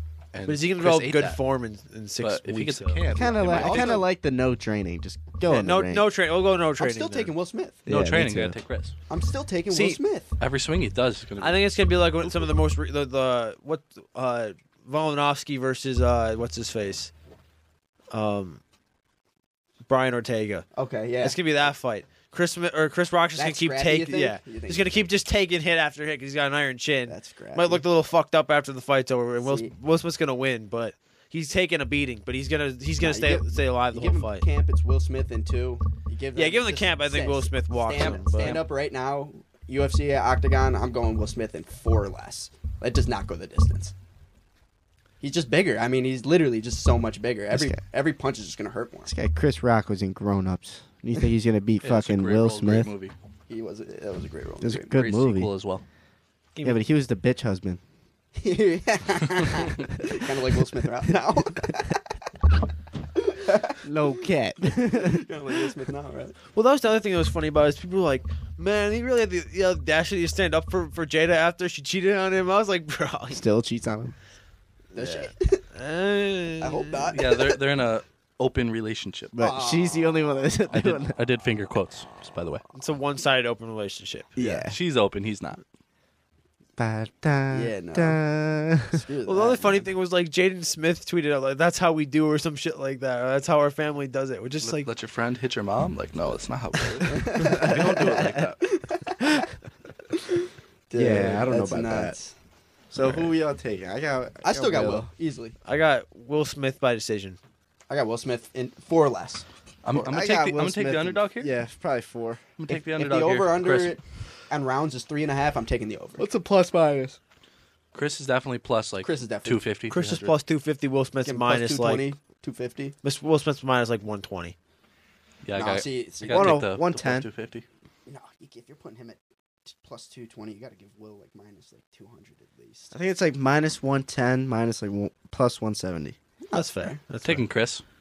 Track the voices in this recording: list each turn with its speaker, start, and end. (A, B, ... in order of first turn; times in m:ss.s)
0:00.3-0:01.4 A
0:00.5-0:03.0 B
0:02.2-0:04.1 A
0:03.1-0:06.1 C
0:03.2-0:04.1 D
0:05.4-0:07.3 B
0:06.8-0:07.8 D
0:07.9-0:08.6 C
0:07.9-0:09.0 A
0:09.1-0:10.4 D
0:09.7-0:10.0 B
0:10.4-0:12.4 A
0:11.4-0:17.1 B
0:18.1-0:18.6 B
0:19.9-0:20.7 B
0:20.8-0:21.4 D
0:21.2-0:34.5 B
0:23.4-0:25.0 D
0:27.1-0:27.8 D
0:29.4-0:29.7 D
0:33.0-0:43.9 D
0:36.4-0:38.6 B
0:38.0-0:38.7 A
0:45.2-0:49.1 D
0:47.5-0:47.8 C
0:49.1-0:52.9 C
0:51.8-0:53.1 A
0:53.5-0:54.9 D
0:54.6-0:55.5 C
0:54.9-0:55.8 A
0:56.6-0:56.8 B
0:56.6-0:57.8 C
0:58.4-1:02.0 D
1:03.2-1:03.8 D
1:03.8-1:05.3 C
1:04.9-1:06.4 D
1:06.5-1:13.4 B
1:13.3-1:14.2 C
1:14.9-1:15.6 D
1:15.0-1:17.1 B
1:16.6-1:17.6 D
1:17.1-1:19.3 A
1:19.3-1:21.2 C
1:19.4-1:20.5 D
1:20.7-1:22.6 A
1:22.7-1:24.3 B
1:24.4-1:24.8 C
1:24.4-1:24.6 D
1:24.7-1:25.6 A
1:26.8-1:29.0 C
1:27.5-1:28.2 D
1:28.9-1:29.9 D
1:29.2-1:34.9 B
1:34.6-1:38.8 A
1:37.1-1:39.4 D
1:37.4-1:38.0 C
1:40.9-1:42.3 D
1:41.0-1:42.2 C
1:42.9-1:45.1 C
1:44.4-1:45.6 D
1:45.6-1:47.4 B
1:47.9-1:49.5 D
1:49.8-1:51.5 A
1:50.0-1:52.4 C
1:52.6-1:54.0 A
1:52.7-1:56.2 D
1:56.2-1:57.2 C
1:57.9-2:00.4 A
1:59.0-1:59.6 D
1:59.9-2:02.1 B
2:01.2-2:03.0 D
2:03.0-2:04.6 B
2:05.4-2:07.6 A
2:05.5-2:06.6 D
2:06.3-2:07.3 C
2:08.1-2:13.0 D
2:12.9-2:16.2 C
2:16.5-2:17.0 D
2:16.5-2:17.4 B
2:17.2-2:17.8 A